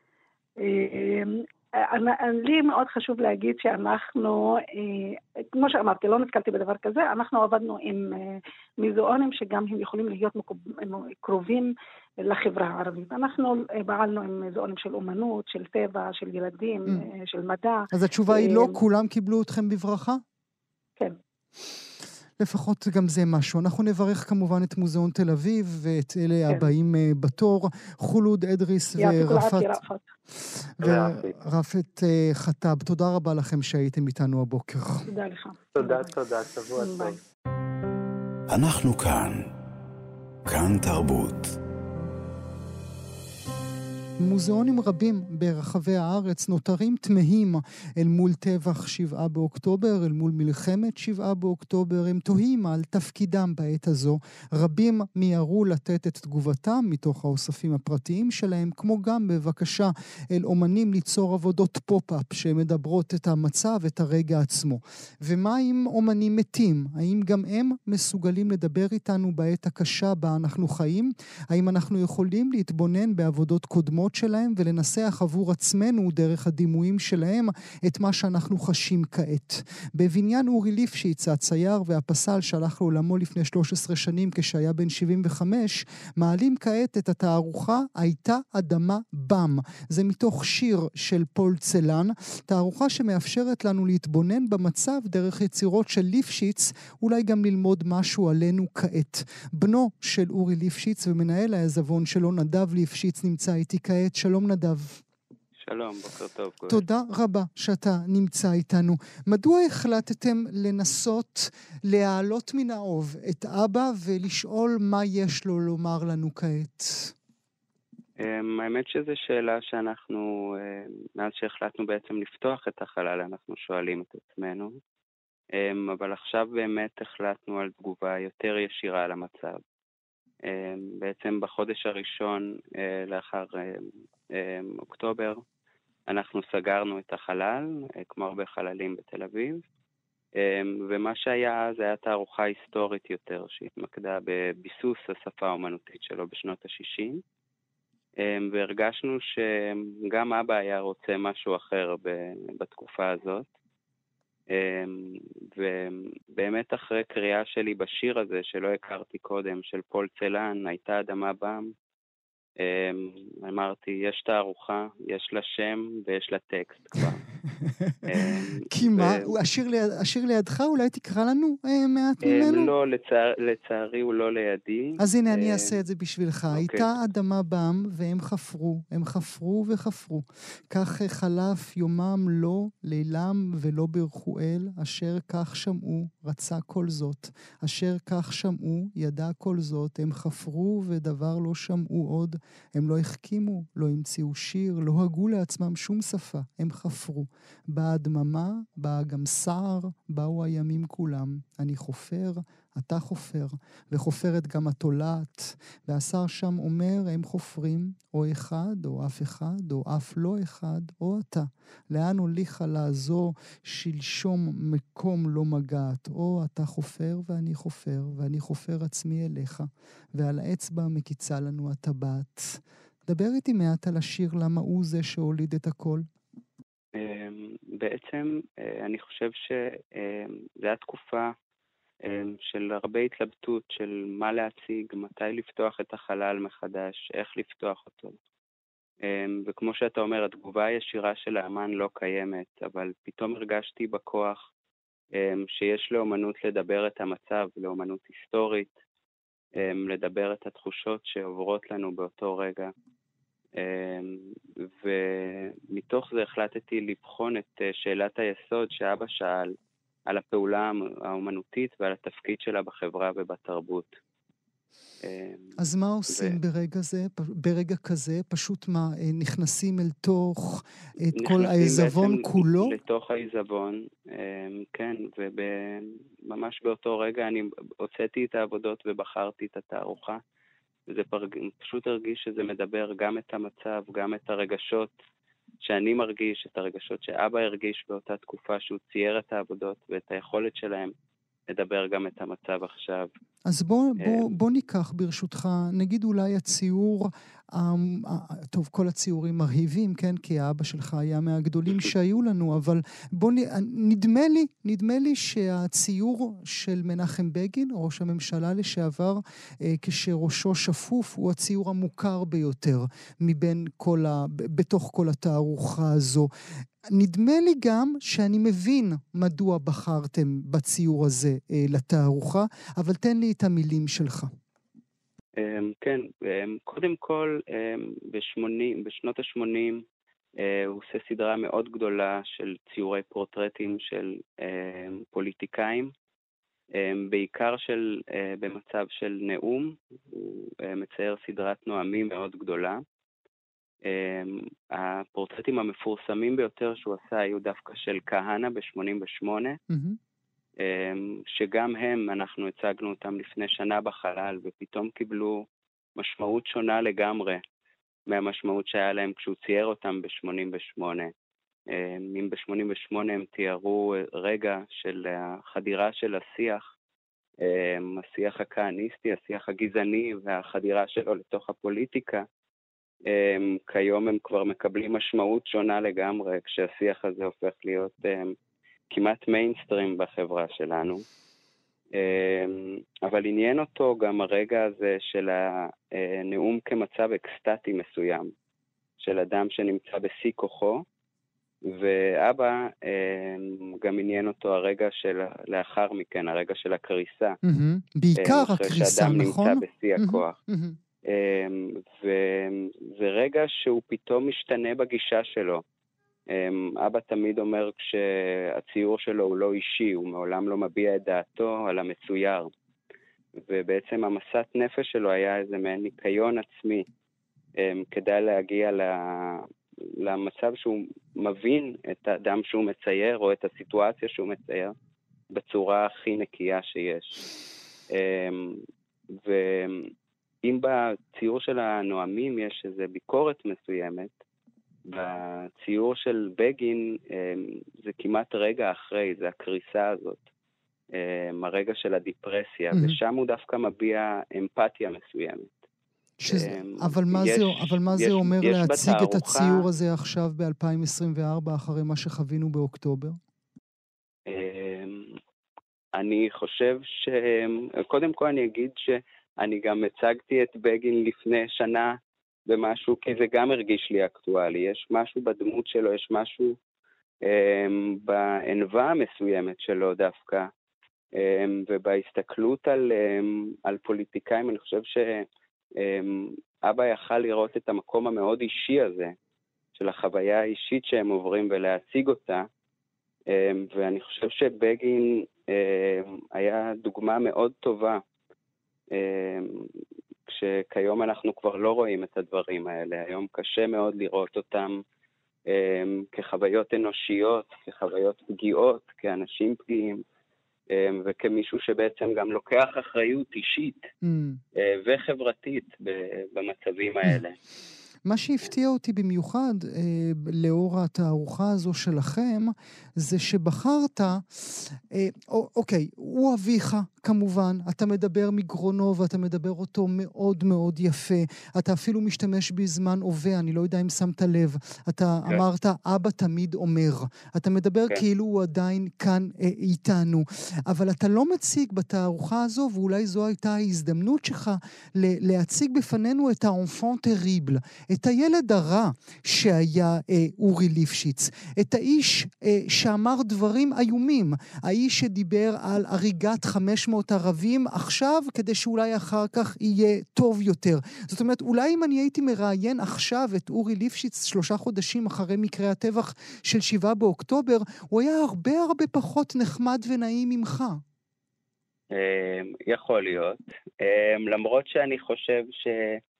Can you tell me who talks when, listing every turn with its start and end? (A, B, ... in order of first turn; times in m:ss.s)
0:00.6-0:11.7 A
0:12.2-0:18.8 A
0:17.9-0:20.2 B
0:22.4-0:29.8 B
0:29.0-0:30.0 A
0:30.8-0:35.1 B
0:30.8-0:31.3 C
0:35.1-0:36.1 A
0:35.8-0:37.2 C
0:36.8-0:37.2 A
0:38.5-0:39.5 D
0:40.5-0:41.5 D
0:44.2-1:45.0 B
1:45.6-1:46.9 E
1:46.7-1:57.1 B
1:58.2-2:04.8 E
2:05.6-2:09.6 E
2:10.5-2:15.4 E
2:16.1-2:19.6 E
2:20.4-2:27.2 E
2:28.2-2:33.5 E
2:34.5-2:41.7 E
2:42.6-2:47.2 E
2:48.1-2:49.3 E
2:48.7-2:52.7 B
2:52.2-2:55.8 E
2:55.0-3:46.0 B
2:56.5-2:56.9 E
3:46.9-3:51.3 E
3:52.0-3:58.2 E
3:59.0-4:04.4 E
4:05.2-4:08.7 E
4:09.6-4:12.7 E
4:13.6-4:19.6 E
4:20.1-4:24.0 E
4:25.0-4:25.5 E
4:25.6-4:32.7 B
4:26.1-4:26.4 E
4:31.2-4:40.2 E
4:40.9-4:44.9 E
4:45.6-4:50.9 E
4:51.5-4:53.1 E
4:53.5-5:16.3 B
4:54.0-4:54.3 E
5:16.9-5:24.3 B
5:25.4-5:29.8 E
5:30.4-5:35.9 E
5:36.8-5:42.8 E
5:43.8-5:49.6 E
5:49.7-5:50.0 B
5:50.6-5:55.5 E
5:56.0-5:57.4 E
5:58.1-6:01.1 E
6:01.7-6:06.6 E
6:07.4-6:12.2 E
6:13.1-6:18.3 E
6:18.9-6:21.0 E
6:21.9-6:28.3 E
6:29.0-6:30.8 E
6:31.6-6:37.4 E
6:37.4-6:40.8 B
6:38.2-6:40.4 E
6:41.1-6:45.6 E
6:46.3-6:52.5 E
6:53.4-6:56.9 E
6:57.6-6:59.5 E
7:00.0-7:04.7 E
7:05.3-7:07.3 E
7:07.9-7:08.6 E
7:09.2-7:09.9 E
7:10.4-7:14.2 E
7:14.9-7:20.3 E
7:20.9-7:25.5 E
7:26.2-7:33.2 B
7:26.3-7:29.6 E
7:34.3-7:35.2 E
7:36.0-7:46.6 E
7:47.2-7:50.5 E
7:51.2-7:55.3 E
7:55.8-7:59.2 E
7:59.8-8:02.5 E
8:03.3-8:08.0 E
8:08.9-8:09.7 E
8:10.3-8:14.8 E
8:15.5-8:20.0 E
8:20.7-8:23.9 E
8:24.0-8:24.4 B
8:24.6-8:27.4 E
8:28.1-9:20.8 B
9:21.9-9:26.0 E